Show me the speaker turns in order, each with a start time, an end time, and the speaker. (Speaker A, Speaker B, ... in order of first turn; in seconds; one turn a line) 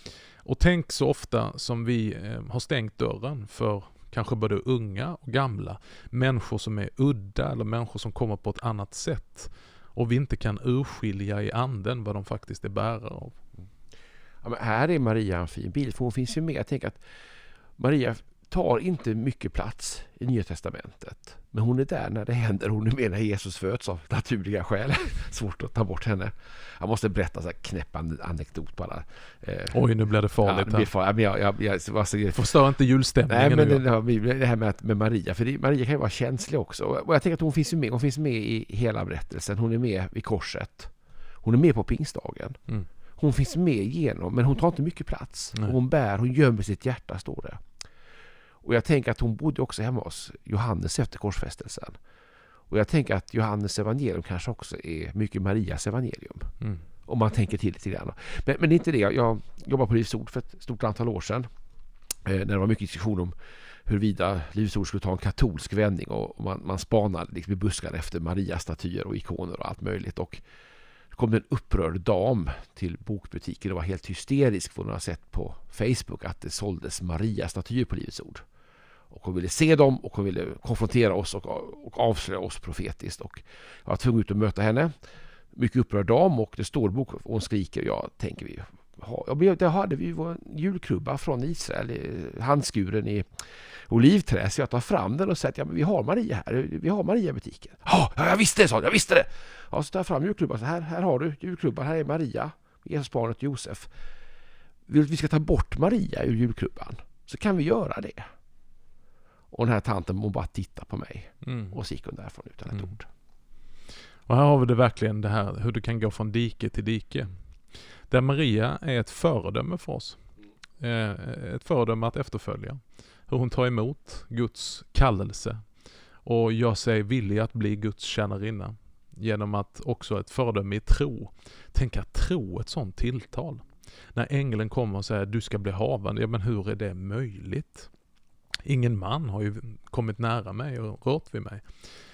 Speaker A: 0.4-13.4
Speaker B: 14.4-17.0
Speaker B: 17.8-29.8
Speaker A: 29.7-30.9
Speaker B: 30.4-32.5
Speaker A: 32.3-33.9
Speaker B: 33.3-40.9
Speaker B: 41.4-42.6
Speaker B: 43.2-47.6
Speaker B: 48.6-52.0
Speaker B: 52.7-56.5
Speaker B: 57.1-61.5
Speaker B: 62.2-63.3
Speaker B: 63.9-70.4
Speaker B: 71.1-78.4
Speaker B: 79.1-84.9
Speaker B: 85.5-103.9
Speaker B: 104.9-108.2
Speaker B: 109.5-113.1
Speaker A: 111.4-111.8
Speaker A: 112.7-113.0
Speaker A: 114.2-120.2
Speaker A: 120.8-125.7
Speaker A: 126.2-137.9
Speaker A: 138.6-141.7